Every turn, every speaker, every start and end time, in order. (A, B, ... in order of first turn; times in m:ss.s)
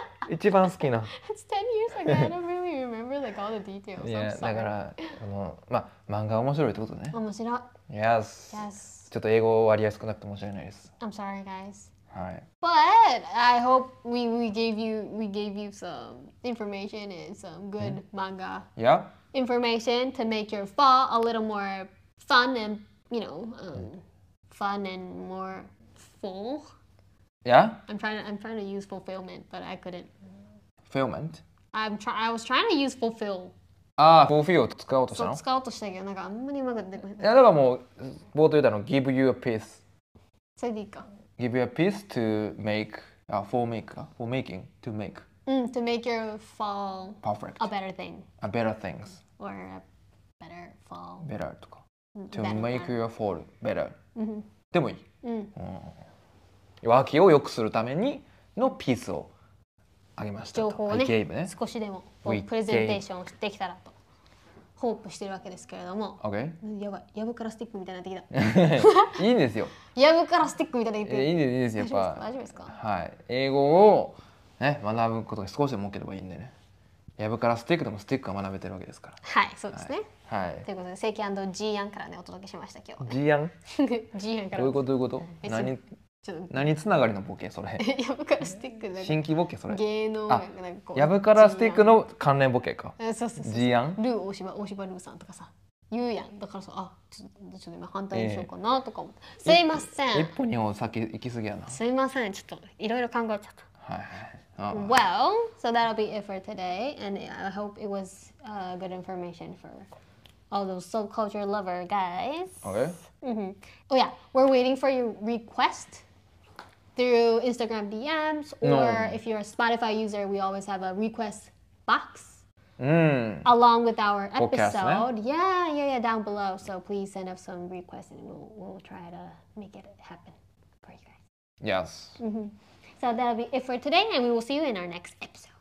0:00.2-0:01.1 A
0:01.1-0:05.1 B
0:04.0-0:07.2 A
0:07.1-0:07.7 B
0:07.9-0:10.9 A
0:08.5-0:09.1 B
0:11.0-0:11.9 B
0:12.1-0:12.4 A
0:12.6-0:18.7 B
0:18.8-0:19.1 A
0:19.3-0:26.6 B
0:27.4-0:27.8 A
0:27.9-0:30.1 B
0:30.9-0:31.4 A
0:31.7-0:33.5 B
0:34.0-0:35.4 A
0:35.1-0:37.3 B
0:37.2-0:39.8 A
0:40.6-0:41.1 B
0:41.4-0:45.2 A
0:45.4-0:48.3 B
0:47.2-0:47.7 A
0:48.4-0:49.2 A
0:49.3-0:49.8 B
0:50.4-0:51.3 B
0:51.2-0:54.0 A
0:52.1-0:53.0 B
0:54.2-0:54.5 B
0:54.7-0:55.0 A
0:55.2-0:55.5 B
0:55.6-0:55.9 A
0:56.8-0:59.3 A
1:00.2-1:01.5 A
1:00.5-1:03.9 B
1:02.2-1:03.0 A
1:04.8-1:09.2 B
1:06.2-1:06.6 A
1:08.3-1:09.7 A
1:09.9-1:12.7 B
1:11.0-1:16.5 A
1:17.2-1:19.2 A
1:19.2-1:20.1 B
1:19.7-1:20.7 A
1:20.6-1:23.2 B
1:23.0-1:23.5 A
1:23.7-1:24.8 B
1:24.5-1:25.8 A
1:25.4-1:26.7 B
1:26.5-1:27.8 A
1:27.8-1:32.0 B
1:29.0-1:34.0 A
1:33.0-1:40.3 B
1:38.1-1:38.5 A
1:39.4-1:41.8 A
1:41.7-1:43.6 B
1:43.8-1:45.0 A
1:44.7-1:49.9 B
1:50.5-1:56.0 B
1:52.6-1:53.0 A
1:57.0-2:02.4 B
1:58.6-1:59.2 A
2:02.8-2:03.5 A
2:03.4-2:11.2 B
2:04.4-2:05.1 A
2:11.6-2:12.2 A
2:12.2-2:15.5 B